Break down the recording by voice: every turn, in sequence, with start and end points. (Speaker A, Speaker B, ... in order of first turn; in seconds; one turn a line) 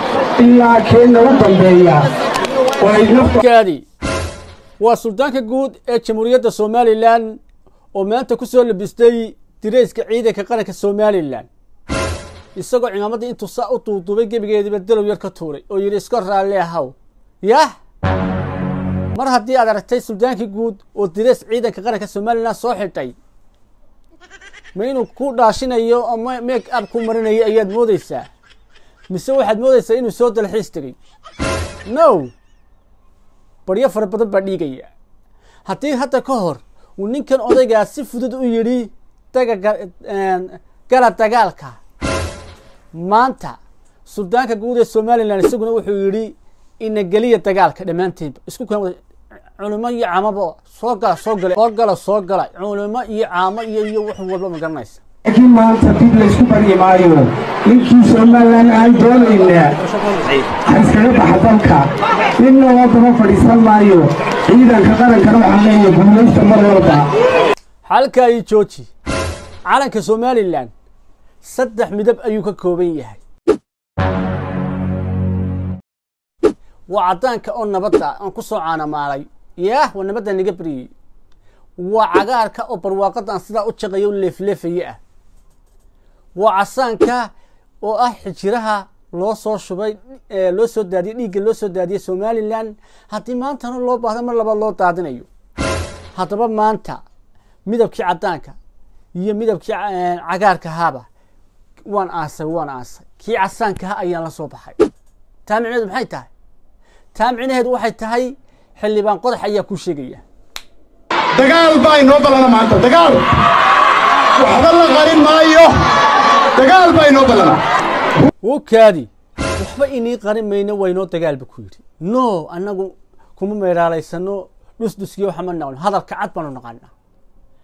Speaker A: 0.4-2.1
Speaker A: 2.8-3.4
Speaker B: 3.4-3.9
Speaker B: 4.8-7.4
Speaker B: 7.9-11.5
Speaker B: 12.6-17.7
Speaker B: 19.1-23.2
Speaker B: 24.8-28.3
Speaker B: 29.1-31.0
Speaker B: 31.9-32.3
Speaker B: 33.7-34.9
Speaker B: 35.6-41.8
Speaker B: 42.9-49.0
Speaker B: 49.6-55.0
Speaker A: 55.3-59.8
Speaker A: 60.7-67.0
Speaker B: 67.9-68.9
Speaker B: 69.7-70.7
Speaker B: 71.4-73.2
Speaker B: 76.9-80.9
Speaker B: 81.8-85.0
Speaker B: 86.4-87.3
Speaker B: 87.8-95.3
Speaker B: 96.2-97.0
Speaker B: 97.7-98.6
Speaker B: 99.2-101.1
Speaker B: 101.8-104.8
Speaker B: 105.5-106.3
Speaker B: 107.1-110.2
Speaker C: 111.4-113.4
Speaker C: 114.4-115.8
Speaker C: 116.5-117.6
Speaker B: 118.4-126.9